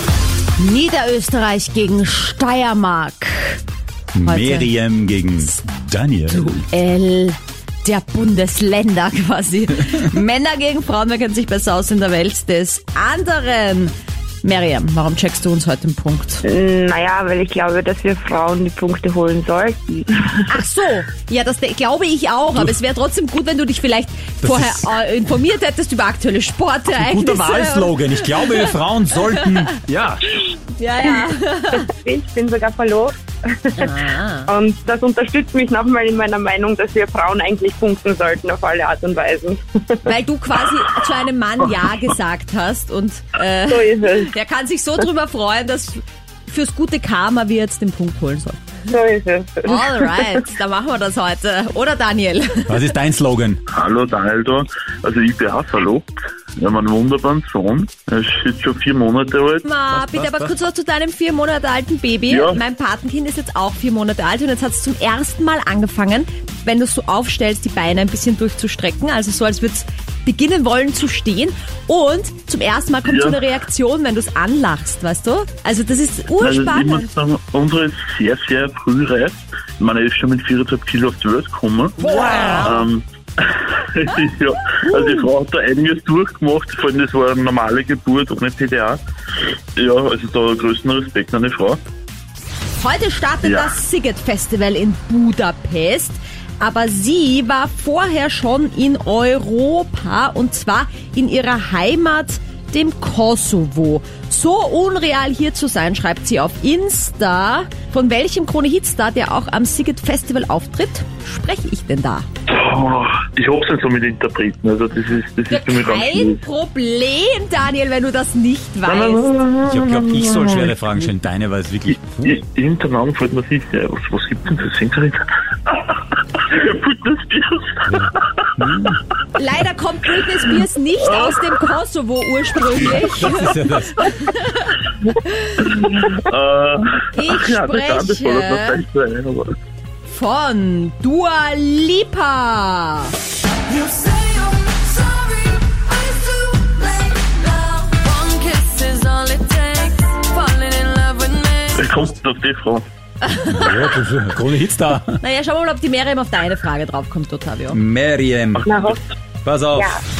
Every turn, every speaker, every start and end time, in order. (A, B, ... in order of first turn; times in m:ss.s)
0:00.6-0:03.6 A
0:04.1-0:06.6 B
0:04.2-0:04.7 A
0:06.3-0:13.9 A
0:14.4-0:16.4 A
0:16.4-0:20.5 C
0:20.5-0:29.7 A
0:24.4-0:24.9 B
0:26.9-0:30.2 B
0:30.8-0:31.9 A
0:31.7-0:40.1 C
0:33.8-0:34.5 A
0:40.0-0:48.7 A
0:43.7-0:44.3 C
0:48.9-0:50.4 C
0:49.7-0:52.8 A
0:52.7-0:53.6 B
0:53.7-0:59.6 D
0:59.6-1:17.1 A
0:59.9-1:00.5 B
1:02.3-1:02.6 D
1:13.0-1:13.4 D
1:16.3-1:22.0 D
1:22.0-1:22.7 A
1:22.0-1:22.7 B
1:22.6-1:29.0 D
1:24.9-1:25.2 A
1:29.8-1:31.8 D
1:32.8-1:52.3 A
1:33.4-1:33.8 D
1:52.5-1:56.4 D
1:55.5-1:59.3 A
1:58.8-2:00.7 D
1:59.7-2:02.4 B
2:02.2-2:08.9 D
2:07.9-2:09.0 B
2:09.3-2:15.8 A
2:11.0-2:11.5 D
2:13.1-2:14.0 B
2:15.6-2:19.5 D
2:17.1-2:18.8 A
2:20.1-2:23.2 A
2:27.3-2:30.3 A
2:28.0-2:31.6 E
2:30.9-2:31.3 A
2:31.7-2:32.8 D
2:33.2-2:34.0 A
2:33.5-2:35.2 B
2:35.2-2:37.8 A
2:37.7-2:38.7 B
2:38.6-2:39.0 C
2:39.4-2:40.0 B
2:39.7-2:40.0 C